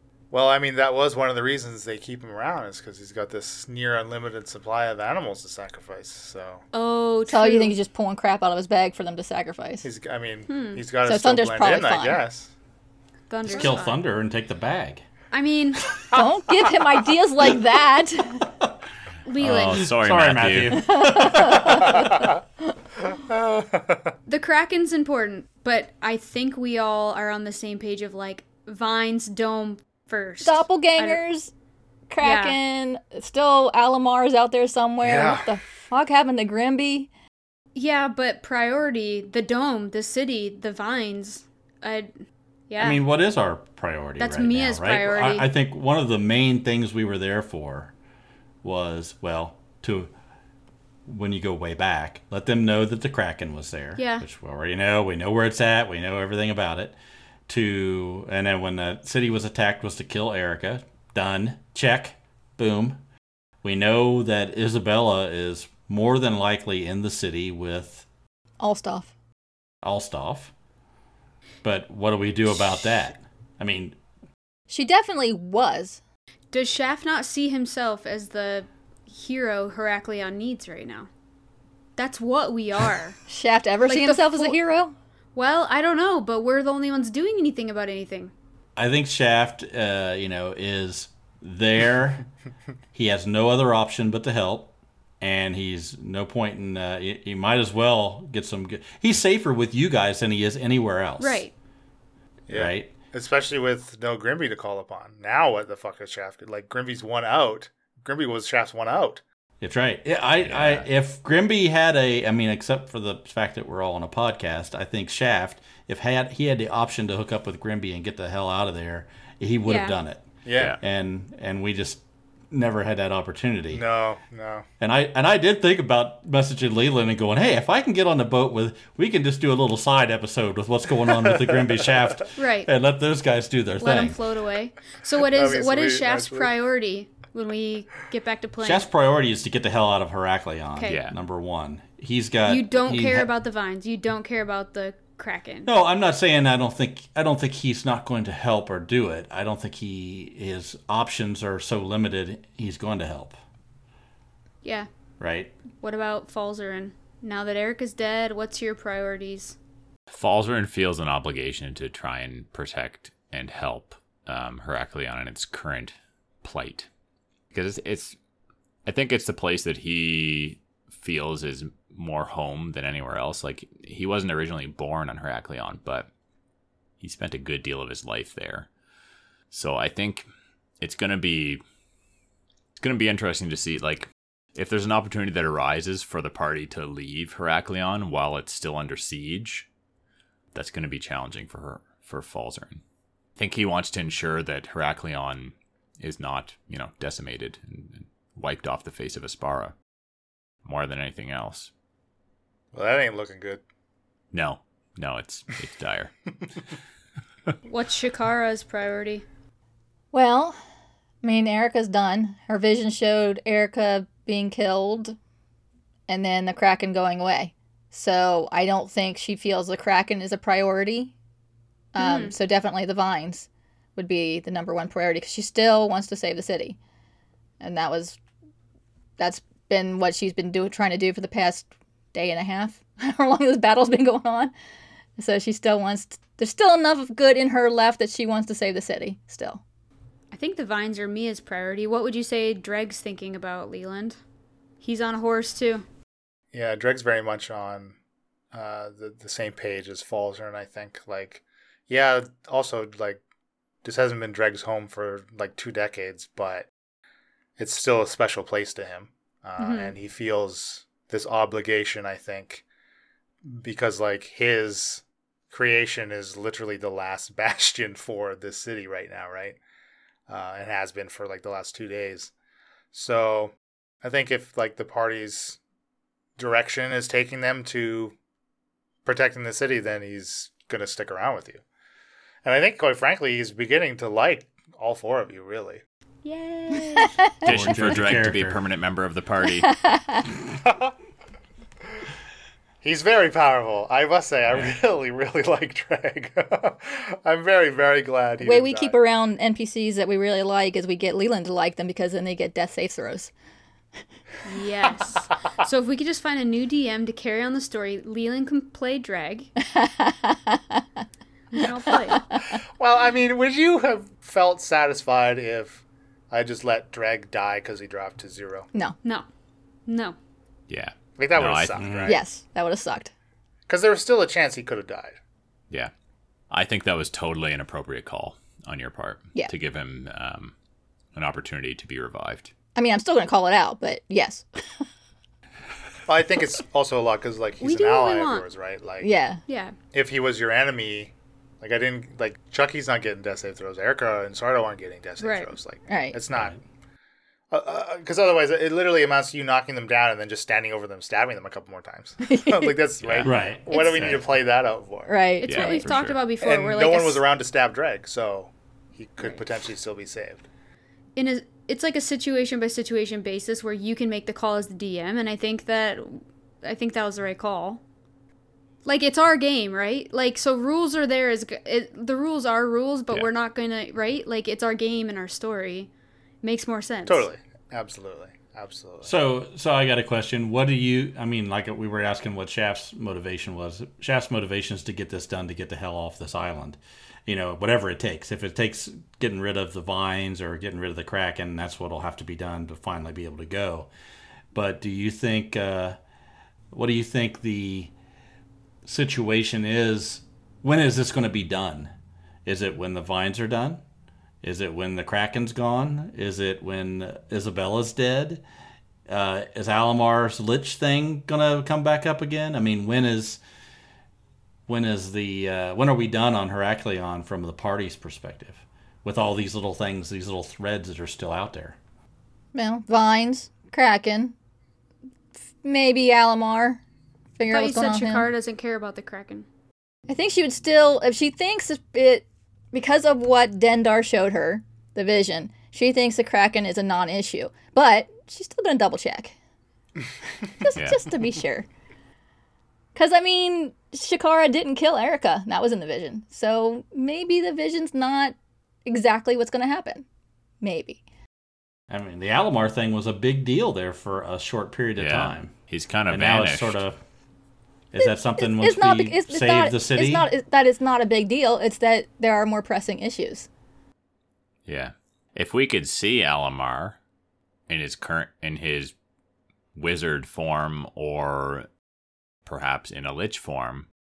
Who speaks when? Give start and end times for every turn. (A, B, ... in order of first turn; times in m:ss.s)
0:00.3-0:06.6 A
0:06.7-0:07.8 B
0:07.3-0:09.9 C
0:09.8-0:12.5 A
0:10.5-0:10.8 B
0:11.0-0:12.2 C
0:13.3-0:14.0 B
0:13.5-0:15.0 D
0:15.3-0:15.9 B
0:16.1-0:18.5 C
0:19.3-0:19.9 B
0:19.4-0:22.3 D
0:19.6-0:20.9 E
0:20.9-0:22.0 C
0:21.7-0:22.3 A
0:23.1-0:24.1 A
0:24.3-0:31.2 B
0:30.4-0:31.5 C
0:32.1-0:37.1 C
0:32.2-0:32.6 B
0:35.0-0:35.5 A
0:37.8-0:42.1 B
0:42.7-0:43.0 B
0:42.8-0:47.9 D
0:44.2-0:45.5 B
0:48.6-0:50.1 D
0:51.1-0:57.0 D
0:54.0-0:54.2 B
0:57.5-1:03.0 D
1:03.6-1:08.1 D
1:08.6-1:09.1 C
1:09.8-1:10.5 D
1:11.6-1:14.0 D
1:14.7-1:16.0 C
1:16.5-1:21.1 B
1:22.0-1:23.2 B
1:23.3-1:24.9 C
1:23.8-1:24.6 B
1:25.4-1:28.3 B
1:28.8-1:32.2 D
1:32.9-1:41.4 D
1:41.2-1:41.5 B
1:42.5-1:49.2 A
1:42.5-1:42.9 D
1:49.6-2:03.8 D
1:50.4-1:50.9 E
1:59.7-2:00.0 B
2:00.4-2:00.8 A
2:03.7-2:04.7 A
2:04.8-2:14.2 D
2:12.4-2:12.7 B
2:13.8-2:18.9 B
2:15.2-2:16.5 A
2:18.6-2:23.3 D
2:20.8-2:21.0 B
2:20.9-2:21.2 E
2:22.5-2:25.7 B
2:25.7-2:33.4 D
2:34.6-2:34.9 B
2:35.2-2:35.5 D
2:35.8-2:39.6 B
2:40.1-2:46.9 E
2:47.5-2:48.2 E
2:48.9-2:56.1 E
2:57.0-2:58.7 E
2:59.5-3:00.3 E
3:00.8-3:01.6 E
3:02.8-3:09.7 E
3:10.5-3:12.8 E
3:13.4-3:19.7 E
3:20.6-3:21.7 E
3:22.7-3:23.6 A
3:24.3-3:26.1 E
3:27.7-3:29.2 B
3:30.1-3:30.6 C
3:31.2-3:35.2 C
3:36.1-3:41.1 C
3:42.0-3:46.8 C
3:42.0-3:42.4 B
3:47.6-3:48.2 C
3:49.2-3:54.5 C
3:55.2-3:59.6 C
4:00.3-4:04.2 B
4:04.8-4:05.9 B
4:06.5-4:08.0 A
4:08.5-4:13.2 A
4:13.8-4:16.7 A
4:17.6-4:22.6 A
4:19.6-4:20.0 B
4:23.4-4:29.6 A
4:30.3-4:32.3 A
4:32.9-4:35.6 A
4:36.4-4:38.1 A
4:39.0-4:41.6 A
4:42.4-4:45.8 A
4:46.2-4:47.2 B
4:47.4-4:49.7 E
4:47.4-4:48.6 D
4:49.4-4:50.3 C
4:50.6-4:50.9 A
4:52.8-4:59.0 A
4:58.4-5:03.3 C
5:04.4-5:09.5 B
5:09.7-5:10.8 C
5:11.5-5:12.2 B
5:11.6-5:12.6 C
5:12.8-5:18.7 A
5:19.9-5:20.2 B
5:20.7-5:22.0 E
5:21.2-5:22.2 A
5:21.8-5:22.2 D
5:22.1-5:23.1 C
5:23.7-5:25.2 A
5:26.5-5:30.5 E
5:31.2-5:32.5 E
5:32.8-5:34.6 C
5:36.1-5:39.1 A
5:37.6-5:38.5 B
5:39.0-5:39.4 C
5:39.5-5:39.8 B
5:39.9-5:46.6 A
5:45.2-5:45.5 B
5:45.9-5:46.2 C
5:46.3-5:46.6 D
5:47.5-5:55.2 A
5:52.2-5:52.8 C
5:53.0-5:53.4 E
5:53.2-5:54.2 D
5:55.1-5:55.9 C
5:55.4-5:57.2 B
5:55.4-5:56.2 E
5:56.4-6:00.4 A
6:01.2-6:07.8 B
6:08.8-6:15.9 B
6:16.4-6:17.3 B
6:17.1-6:19.1 A
6:19.0-6:33.9 D
6:34.5-6:36.0 D
6:36.7-6:37.9 D
6:38.8-6:41.9 D
6:42.4-6:43.8 D
6:44.4-6:48.4 D
6:49.1-6:53.4 D
6:54.7-7:01.8 D
7:02.5-7:04.3 C
7:05.6-7:06.8 C
7:07.4-7:08.3 C
7:07.5-7:09.5 B
7:10.1-7:19.3 C
7:20.5-7:21.7 C
7:20.8-7:21.0 E
7:23.0-7:28.4 C
7:28.9-7:30.0 C
7:30.6-7:31.0 C
7:31.9-7:35.5 D
7:35.0-7:36.8 E
7:36.1-7:37.0 D
7:37.9-7:40.3 D
7:38.0-7:43.5 C
7:44.7-7:47.0 E
7:47.7-7:48.9 E
7:49.8-7:51.7 E
7:52.5-7:53.9 E